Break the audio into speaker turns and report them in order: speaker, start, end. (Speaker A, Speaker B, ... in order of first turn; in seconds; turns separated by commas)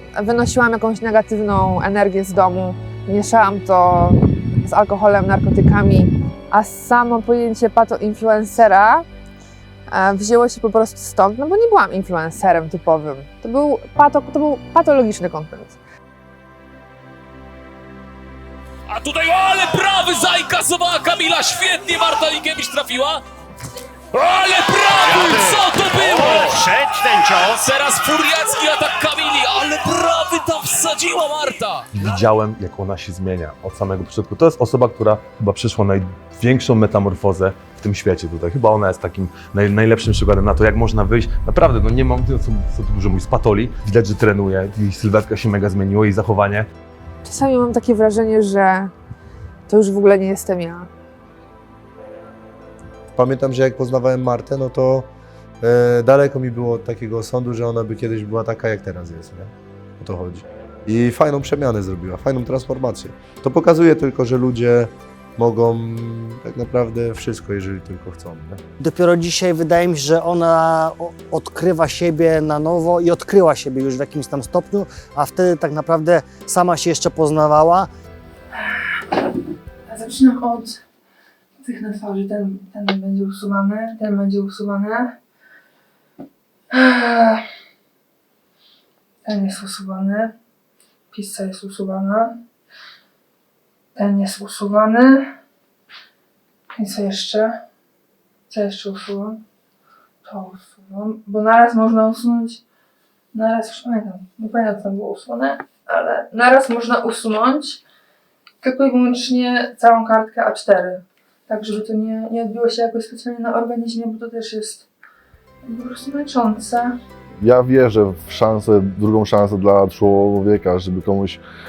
Speaker A: 0.1-9.1, Speaker A: 9.9-15.8, Speaker B: 18.9-23.2, Speaker B: 24.1-26.8, Speaker B: 27.4-31.9, Speaker C: 31.9-46.6, Speaker A: 47.2-48.9, Speaker A: 49.7-50.9, Speaker D: 53.1-55.1, Speaker D: 55.6-68.6, Speaker E: 68.8-77.9, Speaker F: 79.9-80.8, Speaker F: 81.6-85.2, Speaker F: 86.7-87.4, Speaker F: 89.2-90.3, Speaker F: 91.1-92.4, Speaker F: 93.9-95.4, Speaker F: 96.7-97.6, Speaker F: 98.5-99.4, Speaker F: 100.2-102.6, Speaker F: 103.3-107.8, Speaker F: 108.6-114.8, Speaker F: 115.6-117.0, Speaker G: 117.4-121.4